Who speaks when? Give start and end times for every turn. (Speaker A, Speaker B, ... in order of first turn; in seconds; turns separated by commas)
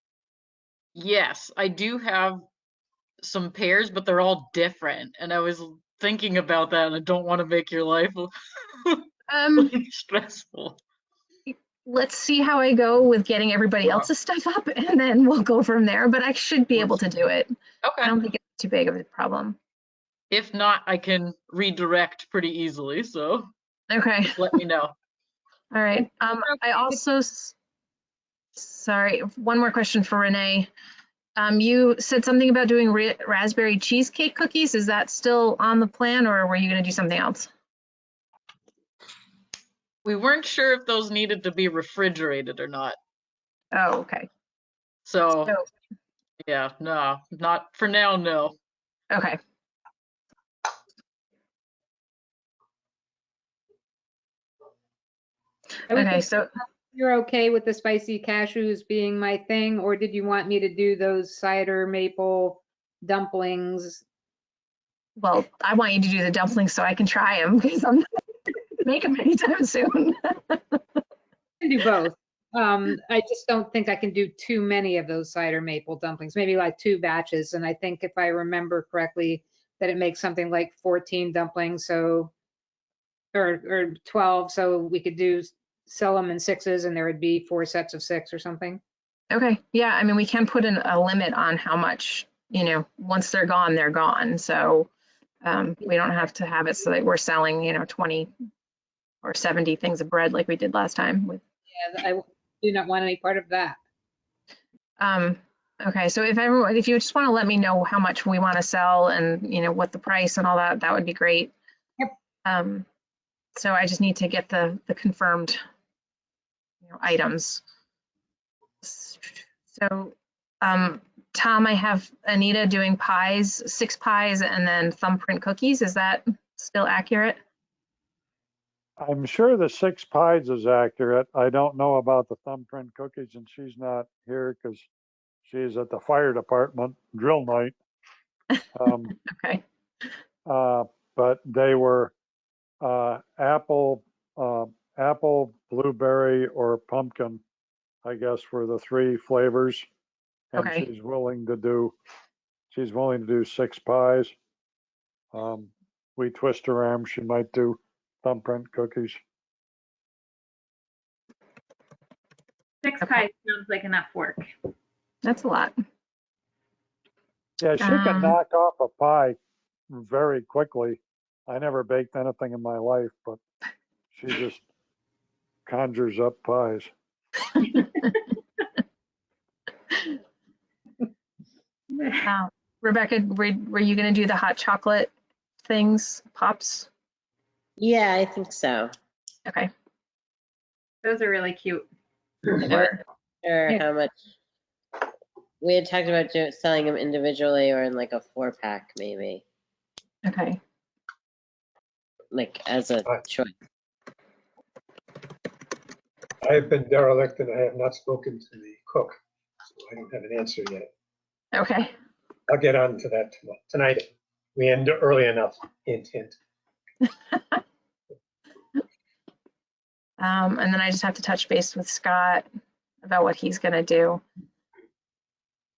Speaker A: 0.9-2.5, Speaker A: 3.2-8.3, Speaker A: 8.8-10.8, Speaker B: 9.3-9.7, Speaker B: 11.5-19.6, Speaker A: 17.8-18.1, Speaker A: 20.3-23.5, Speaker B: 23.9-24.4, Speaker A: 24.3-24.9, Speaker B: 25.7-27.5, Speaker C: 26.4-27.0, Speaker B: 28.6-30.7, Speaker B: 31.4-37.5, Speaker A: 40.0-43.0, Speaker B: 43.7-44.3, Speaker A: 45.0-45.5, Speaker A: 46.4-48.6, Speaker B: 49.1-49.4, Speaker B: 55.9-56.5, Speaker C: 55.9-56.3, Speaker C: 56.9-64.0, Speaker B: 65.2-68.1, Speaker B: 68.8-70.8, Speaker C: 71.6-82.3, Speaker C: 83.3-88.8, Speaker B: 89.3-94.9, Speaker B: 95.4-98.3, Speaker B: 99.2-101.4, Speaker C: 101.7-103.8, Speaker B: 105.0-111.5, Speaker B: 112.4-112.8, Speaker B: 113.5-115.6, Speaker B: 116.8-117.6, Speaker B: 118.8-127.4, Speaker D: 129.0-134.9, Speaker D: 135.4-137.8, Speaker D: 138.7-139.2, Speaker B: 139.2-139.6, Speaker D: 140.4-142.1, Speaker D: 142.8-147.4, Speaker D: 148.0-149.8, Speaker D: 150.5-151.9, Speaker B: 150.6-150.8, Speaker D: 152.7-154.3, Speaker D: 155.3-159.2, Speaker E: 162.8-164.5, Speaker B: 165.2-165.8, Speaker D: 167.6-169.3, Speaker B: 167.8-168.3, Speaker D: 169.9-173.4, Speaker D: 174.1-174.6, Speaker D: 175.7-176.9, Speaker E: 181.9-182.3, Speaker B: 182.2-185.1, Speaker B: 185.6-186.9, Speaker F: 187.8-188.9, Speaker E: 191.0-191.9, Speaker B: 192.6-193.0, Speaker F: 193.4-194.1, Speaker F: 195.6-199.4, Speaker B: 200.2-200.6, Speaker F: 202.3-203.5, Speaker G: 206.4-209.2, Speaker G: 209.8-210.9, Speaker B: 211.5-211.9, Speaker G: 212.5-216.4, Speaker B: 220.2-222.4, Speaker B: 223.0-224.2